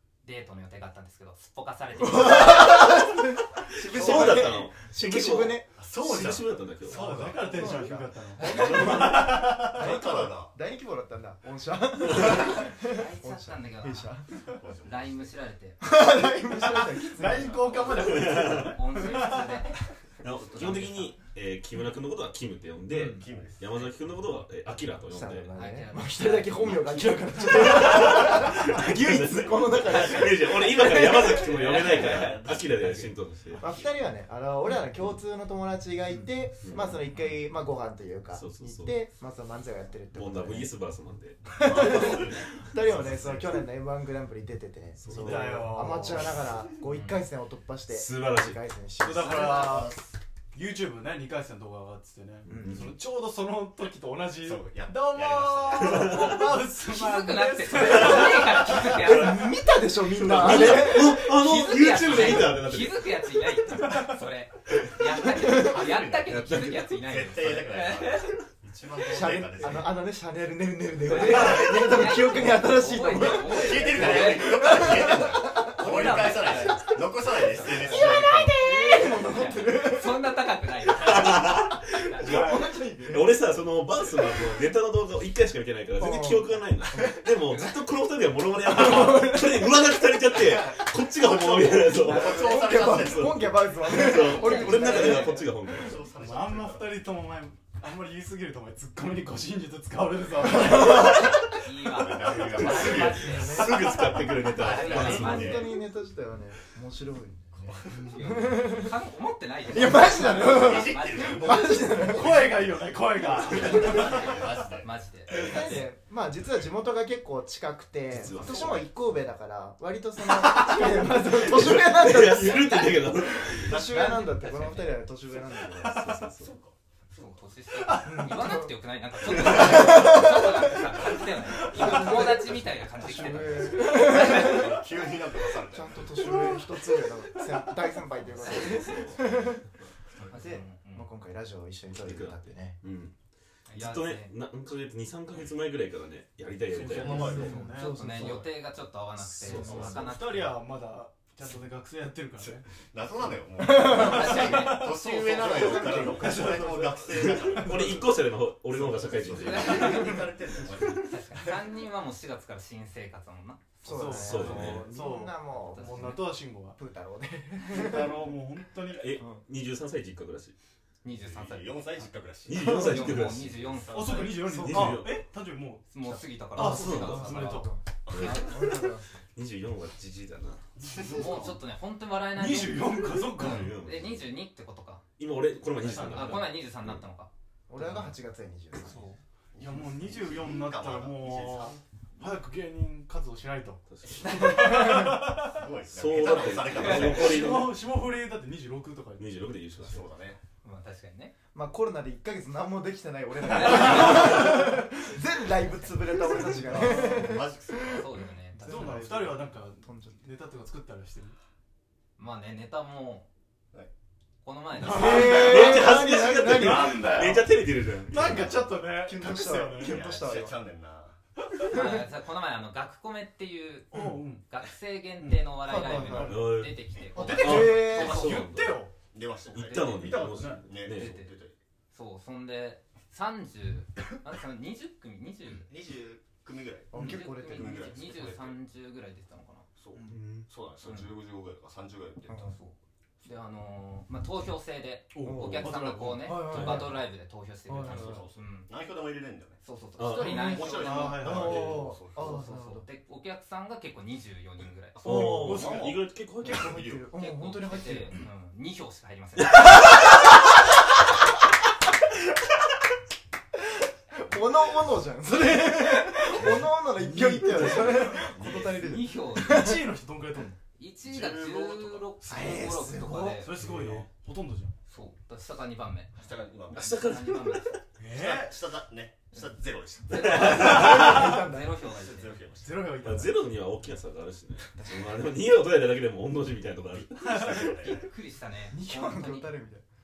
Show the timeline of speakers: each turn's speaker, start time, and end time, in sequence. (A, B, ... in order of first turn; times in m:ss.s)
0:00.2-0:03.0 A
0:02.0-0:06.4 B
0:03.9-0:07.2 C
0:03.9-0:04.6 D
0:05.8-0:08.0 D
0:06.9-0:10.1 E
0:07.5-0:14.2 B
0:08.4-0:09.7 C
0:09.1-0:10.5 D
0:12.2-0:14.2 A
0:14.5-0:15.2 D
0:14.8-0:15.8 A
0:15.8-0:17.6 B
0:16.6-0:19.6 E
0:17.6-0:17.9 D
0:18.0-0:21.2 A
0:18.2-0:18.7 C
0:20.2-0:25.5 C
0:22.9-0:23.2 B
0:23.2-0:23.7 D
0:25.1-0:30.8 B
0:25.5-0:27.9 A
0:27.6-0:33.7 C
0:30.8-0:32.4 A
0:31.5-0:33.8 D
0:33.6-0:40.7 B
0:36.6-0:37.0 C
0:38.3-0:39.0 C
0:40.1-0:43.5 C
0:41.6-0:49.9 B
0:41.6-0:43.4 D
0:45.0-0:45.8 C
0:45.1-0:46.3 E
0:46.9-0:47.2 A
0:47.9-0:48.6 C
0:49.0-0:50.0 E
0:49.1-0:50.1 D
0:50.5-0:58.7 E
0:52.5-0:52.9 B
0:52.5-0:52.9 C
0:54.4-0:56.6 D
0:55.8-0:56.2 C
0:56.8-0:59.6 A
0:58.8-1:01.3 B
0:59.0-0:59.4 C
1:00.0-1:03.1 C
1:00.4-1:08.4 A
1:02.0-1:02.6 B
1:05.2-1:06.0 B
1:05.4-1:10.0 D
1:06.3-1:06.9 C
1:09.1-1:16.9 B
1:11.0-1:22.4 A
1:13.1-1:18.7 D
1:17.5-1:20.2 B
1:20.9-1:36.1 C
1:22.2-1:23.4 B
1:22.2-1:22.6 E
1:26.0-1:27.2 B
1:28.6-1:29.9 B
1:30.2-1:33.5 D
1:31.9-1:35.7 B
1:33.9-1:35.5 A
1:35.7-1:37.0 D
1:36.1-1:41.3 E
1:40.4-1:41.5 B
1:41.5-1:43.6 A
1:41.9-1:43.6 D
1:42.4-1:45.7 C
1:43.0-1:48.9 B
1:44.4-1:45.7 D
1:44.6-1:45.8 A
1:47.7-1:48.0 D
1:47.9-1:48.2 E
1:47.9-1:51.8 A
1:49.7-1:52.6 B
1:49.8-1:52.8 D
1:52.0-1:54.3 E
1:53.4-1:55.8 D
1:53.6-1:55.9 A
1:55.3-2:06.1 B
1:58.1-1:58.9 C
2:00.6-2:03.8 C
2:03.6-2:05.0 A
2:03.7-2:04.3 D
2:05.8-2:06.6 C
2:06.4-2:06.8 D
2:07.1-2:14.6 A
2:08.0-2:08.7 B
2:09.3-2:10.8 B
2:11.6-2:14.8 B
2:13.5-2:16.2 D
2:15.6-2:19.6 B
2:16.2-2:16.6 E
2:18.3-2:19.6 C
2:20.3-2:21.1 A
2:20.3-2:22.8 B
2:22.0-2:23.1 C
2:23.7-2:24.4 A
2:23.7-2:27.5 C
2:26.7-2:27.9 E
2:26.8-2:27.6 D
2:27.0-2:28.5 B
2:27.6-2:30.6 A
2:28.2-2:28.5 D
2:29.2-2:29.9 C
2:29.5-2:29.9 B
2:29.5-2:32.6 E
2:29.6-2:29.9 D
2:32.8-2:38.2 D
2:33.6-2:36.5 B
2:33.6-2:36.0 A
2:34.0-2:35.2 E
2:35.7-2:36.0 C
2:36.0-2:38.0 E
2:37.1-2:40.2 C
2:38.7-2:41.6 D
2:39.3-2:40.3 A
2:39.9-2:40.2 B
2:40.9-2:44.1 A
2:43.8-2:46.8 E
2:43.8-2:48.2 B
2:44.1-2:44.9 C
2:45.7-2:46.2 A
2:47.6-2:49.1 E
2:49.0-2:50.5 C
2:51.0-2:54.7 A
2:51.1-2:52.7 D
2:52.4-2:53.8 C
2:52.7-2:53.0 B
2:53.9-2:57.7 E
2:54.4-2:54.9 B
2:54.6-2:55.2 C
2:55.9-2:58.9 A
2:56.6-2:59.1 B
2:56.7-2:57.2 C
2:58.0-2:58.8 C
2:59.3-3:00.6 C
3:00.8-3:01.6 E
3:01.1-3:05.0 A
3:02.3-3:03.7 E
3:03.2-3:04.3 C
3:05.2-3:07.0 C
3:05.8-3:06.4 E
3:06.0-3:07.3 A
3:07.7-3:09.1 B
3:08.8-3:15.6 E
3:09.5-3:11.8 D
3:13.9-3:14.8 C
3:14.5-3:15.2 B
3:15.5-3:17.5 D
3:15.9-3:17.8 C
3:16.7-3:17.2 A
3:17.2-3:19.3 E
3:19.2-3:20.0 C
3:19.8-3:20.4 D
3:20.6-3:21.3 A
3:21.5-3:30.2 B
3:23.5-3:24.5 A
3:25.8-3:26.1 A
3:26.6-3:28.2 D
3:26.7-3:27.2 A
3:27.9-3:28.9 A
3:28.6-3:31.4 E
3:32.2-3:33.3 A
3:34.4-3:35.6 A
3:34.8-3:40.1 E
3:34.8-3:37.2 B
3:35.2-3:38.6 C
3:39.0-3:40.6 B
3:39.2-3:41.2 D
3:41.5-3:41.9 E
3:41.7-3:48.5 A
3:43.9-3:44.4 E
3:45.2-3:46.5 E
3:45.6-3:46.4 B
3:46.3-3:46.8 C
3:47.1-3:49.0 E
3:47.4-3:48.8 C
3:47.4-3:48.2 B
3:49.1-3:51.6 D
3:49.4-3:51.3 A
3:49.5-3:51.2 C
3:49.9-3:50.7 E
3:51.9-3:55.7 A
3:55.5-3:58.6 D
3:56.9-3:57.8 B
3:57.0-3:59.7 A
3:59.8-4:02.4 D
4:00.1-4:00.5 C
4:00.8-4:01.2 A
4:02.3-4:02.5 B
4:02.3-4:08.7 A
4:05.1-4:06.4 E
4:05.2-4:05.7 B
4:06.2-4:07.0 B
4:06.5-4:06.9 C
4:07.6-4:08.3 B
4:07.8-4:09.6 D
4:09.6-4:11.4 A
4:10.0-4:10.6 C
4:10.2-4:12.8 B
4:10.4-4:12.5 D
4:10.7-4:11.8 E
4:11.5-4:11.8 C
4:12.1-4:15.9 A
4:15.0-4:16.8 C
4:15.1-4:15.7 B
4:15.4-4:17.1 D
4:16.4-4:18.2 B
4:17.1-4:19.8 A
4:24.1-4:29.8 B
4:26.2-4:28.3 E
4:27.6-4:29.0 D
4:28.5-4:29.8 A
4:29.4-4:30.6 E
4:30.7-4:33.5 A
4:31.0-4:32.0 C
4:32.2-4:33.6 B
4:32.3-4:32.6 E
4:33.3-4:34.7 E
4:33.6-4:34.0 C
4:34.9-4:37.8 A
4:36.1-4:37.1 D
4:36.7-4:37.7 C
4:38.0-4:38.6 E
4:38.0-4:41.0 D
4:40.0-4:42.3 A
4:40.2-4:41.8 B
4:40.3-4:41.0 C
4:41.0-4:41.4 E
4:41.8-4:42.9 D
4:42.6-4:43.4 E
4:43.0-4:47.4 C
4:46.9-4:48.1 D
4:47.1-4:48.0 E
4:47.5-4:49.5 A
4:48.7-4:49.8 B